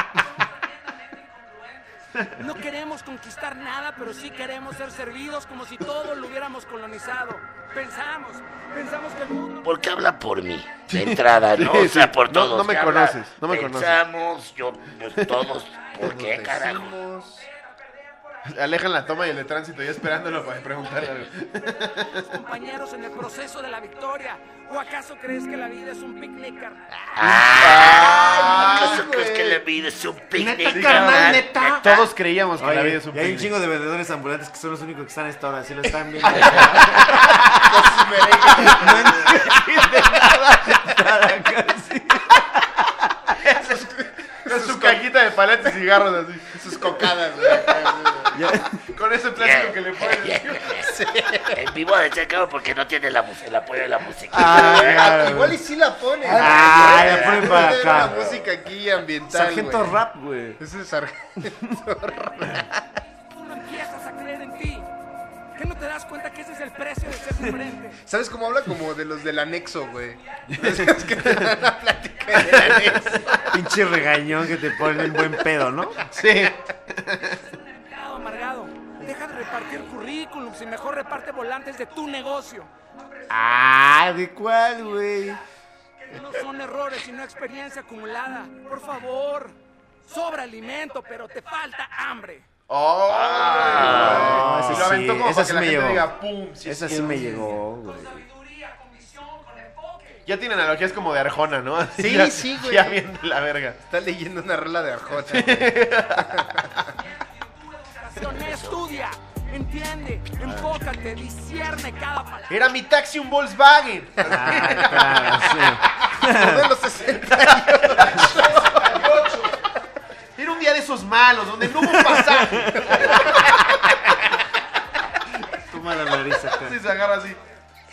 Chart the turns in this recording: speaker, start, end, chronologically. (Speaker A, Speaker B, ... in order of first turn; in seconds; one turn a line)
Speaker A: 0.3-9.8
Speaker B: 9.6-17.0
Speaker C: 10.9-14.0
Speaker D: 16.0-17.4
Speaker A: 17.5-18.1
Speaker C: 18.4-22.3
Speaker A: 22.1-26.8
Speaker B: 27.1-32.1
Speaker E: 27.2-28.0
Speaker C: 27.5-29.0
Speaker A: 27.9-28.8
Speaker D: 28.1-29.6
Speaker E: 30.4-31.9
Speaker C: 30.7-33.5
Speaker E: 32.6-43.0
Speaker C: 36.3-37.4
Speaker D: 37.6-39.4
Speaker C: 43.4-43.8
Speaker D: 43.5-45.0
Speaker C: 44.5-48.0
Speaker D: 46.5-48.4
Speaker E: 48.3-48.8
Speaker C: 48.8-50.9
Speaker B: 49.4-50.9
Speaker D: 50.8-51.7
Speaker B: 51.5-55.1
Speaker E: 54.3-55.6
Speaker D: 54.3-60.0
Speaker E: 56.2-58.2
Speaker B: 56.4-58.5
Speaker E: 59.3-60.6
Speaker D: 60.6-62.7
Speaker A: 63.3-64.9
Speaker A: 65.5-68.0
Speaker D: 68.0-73.5
Speaker C: 70.6-71.7
Speaker C: 72.3-73.2
Speaker A: 72.3-73.8
Speaker E: 73.5-76.1
Speaker C: 76.0-77.4
Speaker A: 77.6-82.7
Speaker E: 83.3-85.4
Speaker A: 86.0-92.5
Speaker C: 92.7-97.5
Speaker B: 93.0-94.8
Speaker D: 93.7-94.6
Speaker E: 93.8-96.1
Speaker E: 96.6-98.2
Speaker A: 97.9-100.3
Speaker C: 100.2-103.8
Speaker D: 101.9-103.0
Speaker D: 103.8-106.7
Speaker C: 105.2-106.9
Speaker A: 107.2-112.5
Speaker B: 108.2-108.8
Speaker C: 112.5-115.6
Speaker E: 114.2-116.7
Speaker D: 114.2-118.9
Speaker C: 117.2-119.7
Speaker E: 118.1-118.4
Speaker C: 120.3-123.4
Speaker E: 121.8-123.5
Speaker D: 122.1-123.8
Speaker E: 125.5-126.8
Speaker A: 125.8-126.0
Speaker C: 126.5-127.4